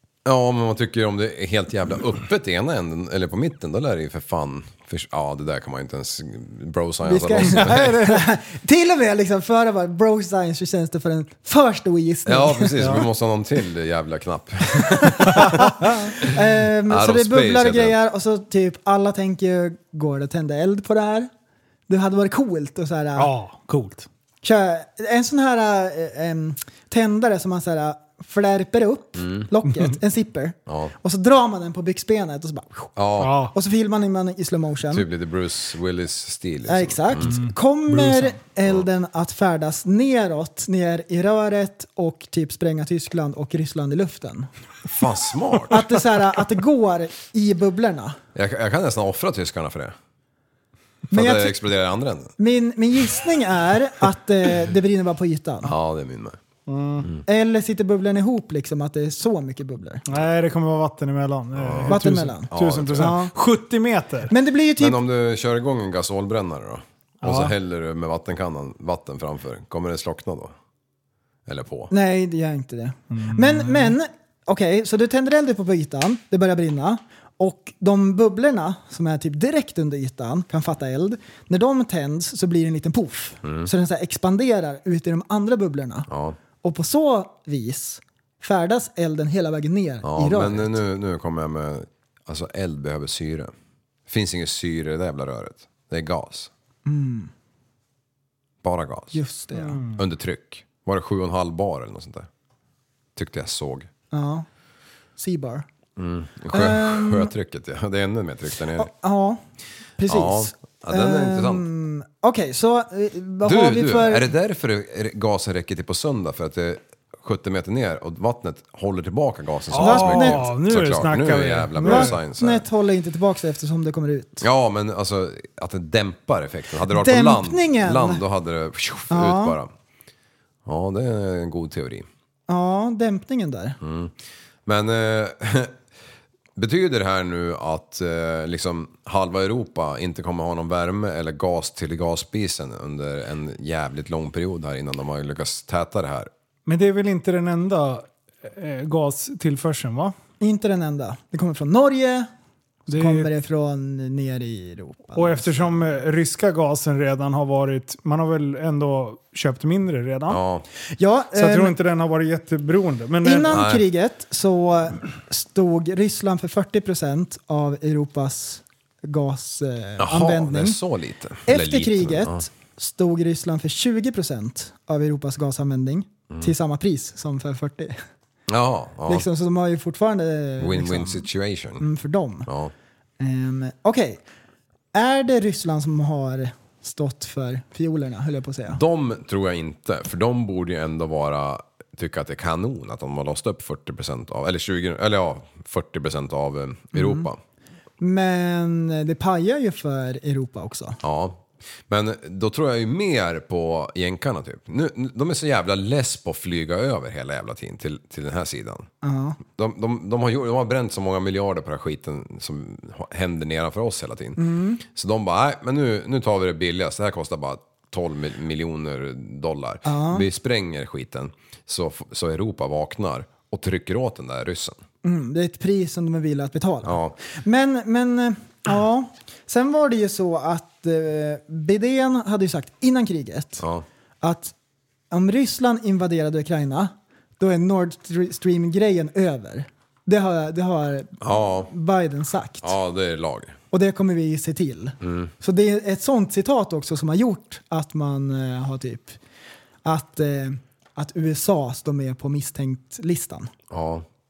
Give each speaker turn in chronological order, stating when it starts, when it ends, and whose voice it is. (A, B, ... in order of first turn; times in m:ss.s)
0:00.2-0:08.1 A
0:07.0-0:13.0 B
0:07.4-0:08.2 C
0:12.2-0:15.6 A
0:15.0-0:21.3 B
0:16.2-0:18.0 A
0:21.9-0:23.3 B
0:23.2-0:24.1 C
0:24.4-0:32.9 B
0:29.2-0:29.5 A
0:30.7-0:30.9 A
0:33.0-0:33.4 A
0:33.2-0:33.5 C
0:33.5-0:35.0 B
0:34.9-0:37.4 A
0:36.7-0:44.5 B
0:37.2-0:38.3 C
0:44.9-0:45.8 A
0:45.7-0:48.2 B
0:48.3-0:49.9 A
0:51.1-0:51.6 B
0:51.1-0:52.3 A
0:52.4-0:55.7 B
0:55.6-0:56.4 A
0:56.7-0:57.1 C
0:57.3-1:00.0 B
1:00.1-1:04.3 C
1:01.5-1:03.2 A
1:01.9-1:03.3 B
1:04.3-1:05.0 B
1:04.8-1:10.5 A
1:07.2-1:07.5 C
1:11.4-1:11.9 A
1:11.9-1:26.1 B
1:13.1-1:13.9 C
1:23.4-1:23.7 A
1:26.1-1:26.4 A
1:26.6-1:30.8 B
1:30.0-1:33.5 A
1:34.1-1:36.5 A
1:36.8-1:37.3 B
1:38.6-1:39.2 A
1:39.1-1:39.8 B
1:39.5-1:40.0 C
1:40.0-1:42.3 A
1:43.2-1:43.9 A
1:44.1-1:44.4 B
1:45.2-1:45.6 B
1:46.0-1:48.9 A
1:46.5-1:47.3 B
1:48.8-1:49.4 B
1:50.0-1:54.3 B
1:50.1-1:51.7 A
1:53.4-2:02.6 A
1:59.7-2:02.2 C
1:59.8-2:00.4 B
2:01.8-2:04.4 B
2:04.4-2:09.7 A
2:06.9-2:08.2 B
2:09.1-2:09.6 B
2:10.6-2:12.0 A
2:12.5-2:13.8 B
2:13.8-2:14.1 A
2:14.6-2:15.7 A
2:16.6-2:26.3 A
2:26.7-2:30.1 C
2:30.4-2:32.3 B
2:32.9-2:33.3 C
2:32.9-2:35.7 B
2:35.1-2:40.4 C
2:40.3-2:40.6 A
2:41.0-2:41.7 B
2:41.4-2:43.6 C
2:43.2-2:50.8 B
2:43.5-2:43.8 A
2:50.0-2:52.5 A
2:51.4-2:58.0 B
2:58.5-2:59.3 A
2:59.1-3:01.3 B
3:00.6-3:01.8 A
3:01.8-3:02.5 B
3:02.5-3:02.7 A
3:03.2-3:04.2 B
3:04.9-3:08.8 B
3:08.7-3:17.4 A
3:16.9-3:17.3 B
3:18.0-3:21.0 B
3:21.0-3:28.9 A
3:29.0-3:29.4 B
3:29.4-3:44.8 A
3:34.4-3:34.8 B
3:39.8-3:40.2 B
3:45.0-3:53.6 B
3:46.8-3:47.2 A
3:54.2-3:54.5 B
3:55.1-4:02.7 B
4:01.2-4:01.7 A
4:02.6-4:03.6 A
4:03.7-4:09.2 B
4:05.0-4:05.3 A
4:09.8-4:13.5 B
4:13.7-4:14.0 A